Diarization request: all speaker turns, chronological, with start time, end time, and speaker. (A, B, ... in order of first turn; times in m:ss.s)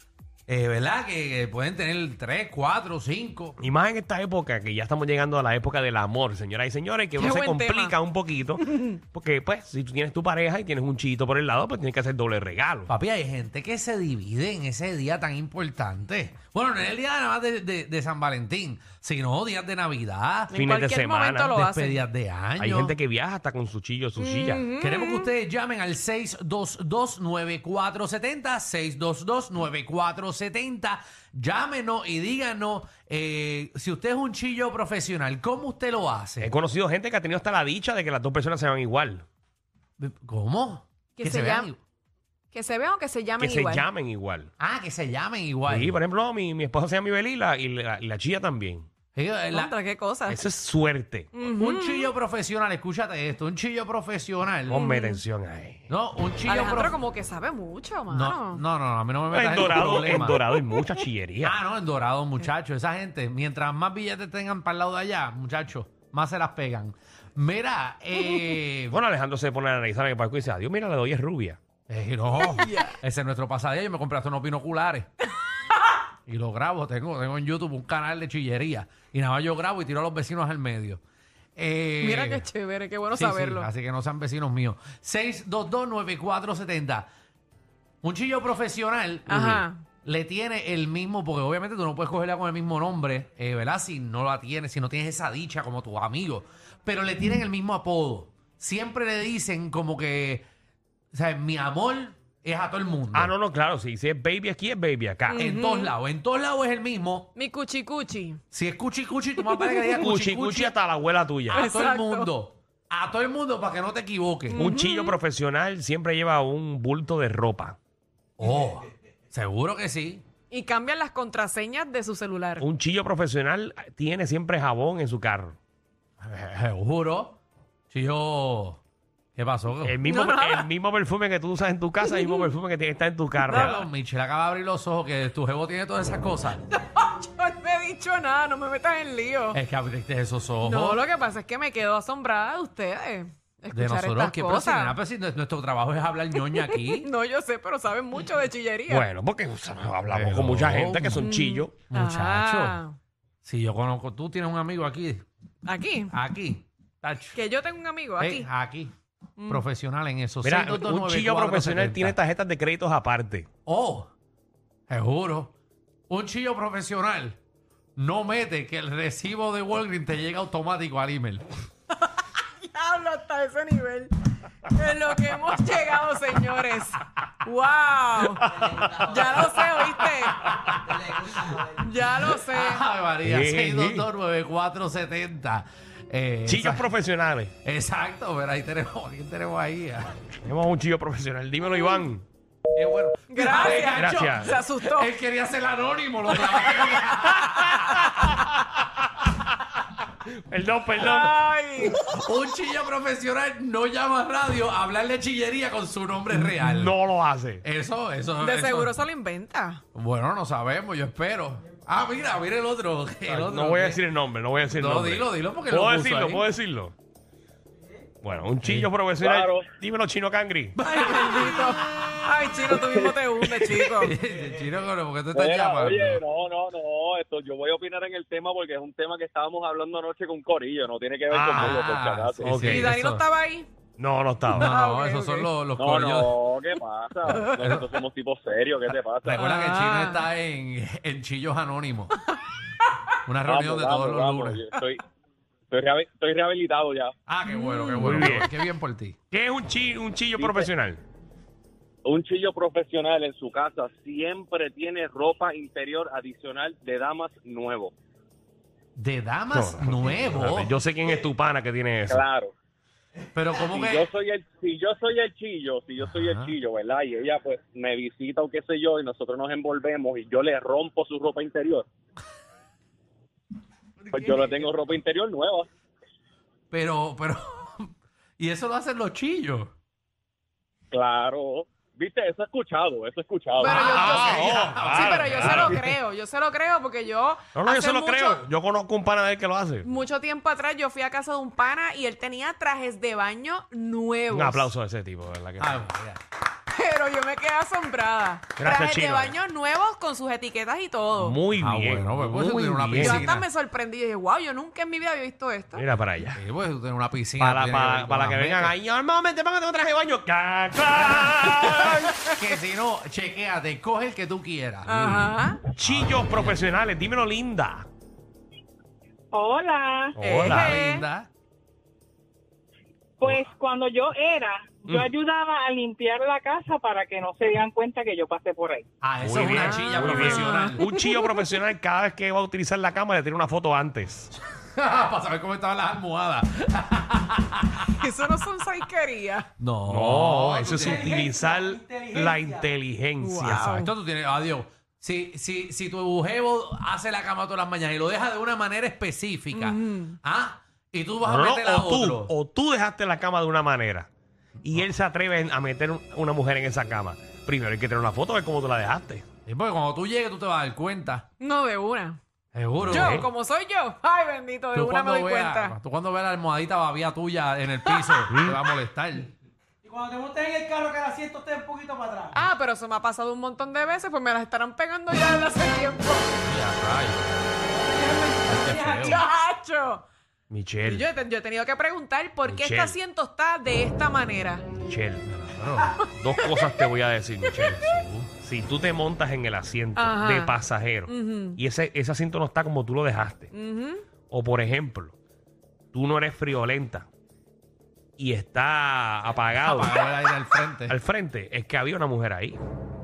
0:00.5-0:03.6 A
0:03.6-0:12.9 B
0:07.2-0:08.0 C
0:08.6-0:09.0 C
0:12.9-0:20.5 A
0:20.5-0:22.1 C
0:20.5-0:21.6 B
0:21.6-0:23.0 A
0:22.6-0:24.7 B
0:24.2-0:25.3 C
0:24.8-0:36.5 A
0:36.4-0:39.2 B
0:40.0-0:41.8 A
0:41.2-0:41.7 C
0:42.5-0:43.8 C
0:43.4-0:44.5 B
0:44.6-0:46.0 A
0:45.7-0:48.9 B
0:49.2-0:49.7 A
0:49.5-0:50.4 C
0:50.3-0:51.3 B
0:51.3-0:52.1 C
0:51.6-0:54.8 A
0:54.7-0:55.9 B
0:54.7-0:55.2 C
0:55.9-0:57.0 A
0:56.5-0:58.6 C
0:58.1-1:00.4 A
0:59.3-1:01.6 B
1:01.4-1:09.0 A
1:08.9-1:11.6 B
1:11.9-1:15.1 A
1:12.4-1:13.0 C
1:16.3-1:21.0 A
1:21.6-1:22.5 A
1:22.0-1:23.7 C
1:23.1-1:27.1 A
1:28.0-1:40.5 A
1:29.3-1:29.8 C
1:41.1-1:43.3 A
1:43.1-1:45.4 B
1:45.3-1:45.9 C
1:45.4-1:47.3 A
1:47.4-1:48.4 C
1:48.5-1:50.8 A
1:49.5-1:50.0 C
1:50.0-1:51.7 B
1:51.5-1:54.6 A
1:51.5-1:52.3 C
1:54.5-1:55.2 C
1:54.6-1:57.8 B
1:58.4-2:00.2 A
2:00.5-2:02.6 C
2:02.6-2:05.6 B
2:06.2-2:07.4 A
2:07.9-2:08.8 A
2:09.4-2:10.0 A
2:09.8-2:13.9 B
2:10.0-2:10.7 C
2:12.0-2:12.5 C
2:13.5-2:13.7 C
2:13.5-2:16.6 A
2:16.7-2:19.6 C
2:19.5-2:21.0 A
2:20.6-2:25.0 C
2:23.7-2:27.1 A
2:26.4-2:29.1 C
2:28.9-2:31.7 B
2:30.1-2:31.3 A
2:31.2-2:33.0 C
2:31.9-2:32.8 A
2:33.4-2:35.2 A
2:35.6-2:36.1 C
2:36.1-2:37.4 A
2:37.3-2:38.5 C
2:38.2-2:38.9 A
2:39.4-2:39.6 C
2:39.5-2:42.2 A
2:40.4-2:43.5 B
2:43.7-2:44.1 A
2:44.9-2:45.5 A
2:46.1-2:47.4 A
2:48.0-2:51.5 A
2:52.0-2:54.1 C
2:54.7-3:00.6 C
2:58.5-2:58.9 B
3:00.4-3:06.9 A
3:01.4-3:02.9 C
3:03.2-3:04.1 B
3:06.5-3:07.5 B
3:07.6-3:10.1 A
3:10.4-3:12.2 B
3:12.8-3:18.1 A
3:13.3-3:15.1 C
3:13.9-3:14.6 B
3:16.4-3:18.4 C
3:18.1-3:19.3 B
3:20.2-3:21.3 B
3:21.0-3:22.0 C
3:22.0-3:27.0 A
3:26.3-3:27.6 B
3:27.6-3:29.0 A
3:28.4-3:29.8 C
3:30.0-3:34.0 A
3:33.2-3:37.0 B
3:34.7-3:36.5 A
3:38.2-3:40.8 B
3:38.6-3:38.9 A
3:39.2-3:39.7 D
3:40.8-3:42.1 A
3:40.9-3:44.2 C
3:43.4-3:46.2 A
3:45.3-3:52.6 D
3:51.3-3:51.9 B
3:51.5-3:53.2 A
3:52.4-3:52.9 B
3:52.6-3:53.7 C
3:54.0-3:54.7 B
3:54.5-3:56.4 A
3:54.5-3:55.5 C
3:55.8-3:59.5 D
3:57.3-3:57.8 A
3:57.3-3:57.7 C
3:59.2-4:02.2 A
3:59.4-4:00.3 C
4:03.3-4:04.6 A
4:03.4-4:05.0 D
4:05.7-4:07.1 D
4:07.3-4:09.2 A
4:07.5-4:08.5 C
4:08.0-4:08.5 B
4:09.3-4:11.0 B
4:10.4-4:10.7 D
4:12.0-4:17.9 D
4:19.0-4:20.8 A
4:19.5-4:22.2 B
4:22.1-4:22.5 D
4:23.4-4:24.1 A
4:23.6-4:31.8 D
4:26.0-4:26.6 A
4:34.1-4:34.7 A
4:34.1-4:35.7 D
4:36.7-4:39.7 A
4:40.9-4:44.2 D
4:43.6-4:48.5 C
4:43.7-4:45.9 A
4:43.7-4:45.8 B
4:47.6-4:49.9 B
4:49.8-4:54.7 C
4:54.3-4:55.9 B
4:55.6-4:56.2 A
4:56.7-5:01.4 C
4:58.6-4:59.4 B
5:01.2-5:03.3 B
5:01.6-5:03.5 A
5:03.0-5:05.8 C
5:05.8-5:06.4 B
5:06.4-5:08.8 A
5:07.4-5:12.2 B
5:10.9-5:16.6 A
5:14.9-5:15.6 C
5:15.7-5:17.9 B
5:19.3-5:20.2 E
5:20.2-5:20.8 B
5:20.2-5:21.1 C
5:20.4-5:21.3 A
5:23.2-5:28.8 E
5:29.0-5:30.8 A
5:29.2-5:34.3 B
5:29.5-5:31.4 C
5:34.5-5:38.1 A
5:37.9-5:39.5 C
5:39.6-5:41.2 A
5:39.9-5:43.8 B
5:40.7-5:42.7 F
5:43.2-5:43.9 C
5:43.4-5:52.3 A
5:49.5-5:50.2 C
5:51.2-5:54.1 B
5:54.6-5:59.3 B
5:59.5-6:01.3 A
6:01.4-6:02.2 C
6:02.5-6:03.2 A
6:02.8-6:03.3 B
6:02.9-6:05.8 C
6:04.7-6:09.3 A
6:07.9-6:08.2 C
6:08.3-6:08.6 B
6:09.9-6:12.4 F
6:12.3-6:16.3 C
6:16.4-6:17.5 A
6:18.0-6:19.0 F
6:18.5-6:19.2 A
6:18.9-6:20.1 C
6:20.5-6:21.0 B
6:20.8-6:24.7 C
6:22.5-6:23.0 B
6:24.7-6:25.3 B
6:25.3-6:26.0 A
6:25.9-6:26.9 C
6:26.1-6:27.8 B
6:27.5-6:28.0 C
6:27.6-6:28.3 A
6:28.4-6:33.5 B
6:30.0-6:31.6 C
6:33.5-6:34.0 C
6:34.3-6:35.2 B
6:35.9-6:37.1 B
6:38.2-6:40.0 B
6:39.6-6:41.0 A
6:40.9-6:42.6 B